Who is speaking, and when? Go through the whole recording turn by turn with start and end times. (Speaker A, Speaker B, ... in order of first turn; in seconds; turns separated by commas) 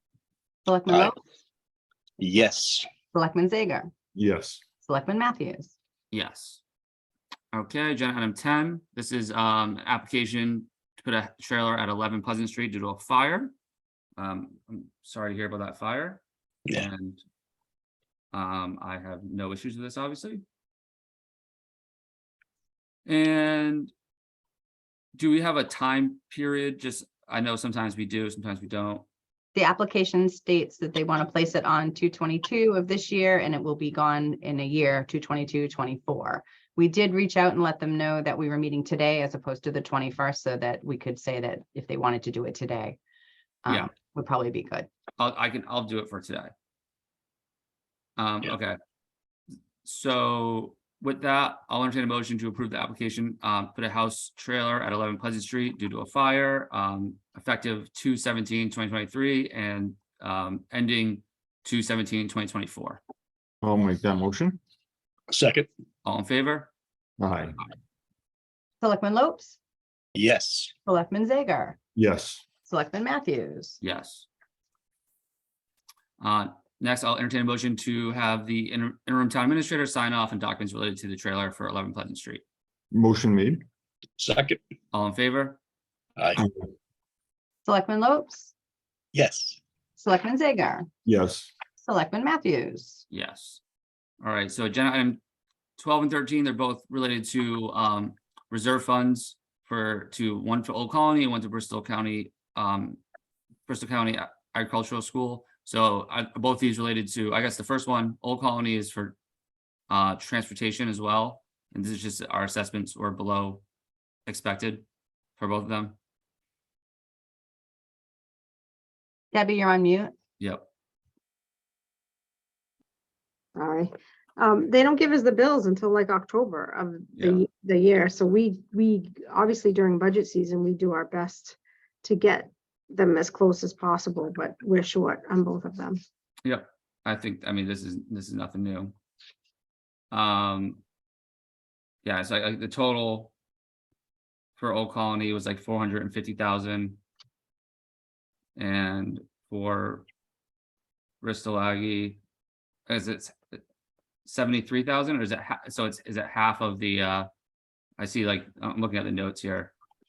Speaker A: 0.7-1.2, Speaker B: 2.2-2.9, Speaker A: 3.1-3.9, Speaker C: 4.1-4.6, Speaker A: 4.8-5.7, Speaker D: 6.1-6.6, Speaker D: 7.5-13.5, Speaker D: 14.2-17.2, Speaker D: 18.3-20.4, Speaker D: 23.1-23.9, Speaker D: 25.2-29.0, Speaker A: 29.5-43.0, Speaker A: 43.6-44.9, Speaker D: 45.2-46.5, Speaker D: 48.2-48.8, Speaker D: 49.8-63.0, Speaker C: 63.6-64.6, Speaker B: 65.3-65.7, Speaker D: 66.0-66.7, Speaker C: 67.2-67.5, Speaker A: 68.8-69.5, Speaker B: 70.2-70.7, Speaker A: 70.8-71.8, Speaker C: 72.0-72.5, Speaker A: 72.6-73.8, Speaker D: 73.8-74.3, Speaker D: 76.2-82.4, Speaker C: 82.9-83.6, Speaker B: 84.2-84.6, Speaker D: 84.9-85.6, Speaker C: 86.4-86.6, Speaker A: 87.7-88.5, Speaker B: 89.1-89.6, Speaker A: 90.0-90.9, Speaker C: 91.0-91.5, Speaker A: 91.8-93.0, Speaker D: 93.1-93.6, Speaker D: 94.2-95.2, Speaker D: 95.8-103.0, Speaker D: 103.7-109.1, Speaker D: 109.9-113.6, Speaker D: 114.3-114.8, Speaker D: 115.4-116.0, Speaker A: 119.3-120.1, Speaker D: 120.4-120.7, Speaker E: 123.5-136.0, Speaker D: 127.2-127.4, Speaker D: 136.4-138.9, Speaker D: 140.1-140.8, Speaker D: 142.0-143.3, Speaker D: 144.6-147.0, Speaker D: 148.6-150.1, Speaker D: 151.2-152.2, Speaker D: 152.9-153.6, Speaker D: 154.2-157.3, Speaker D: 158.0-159.7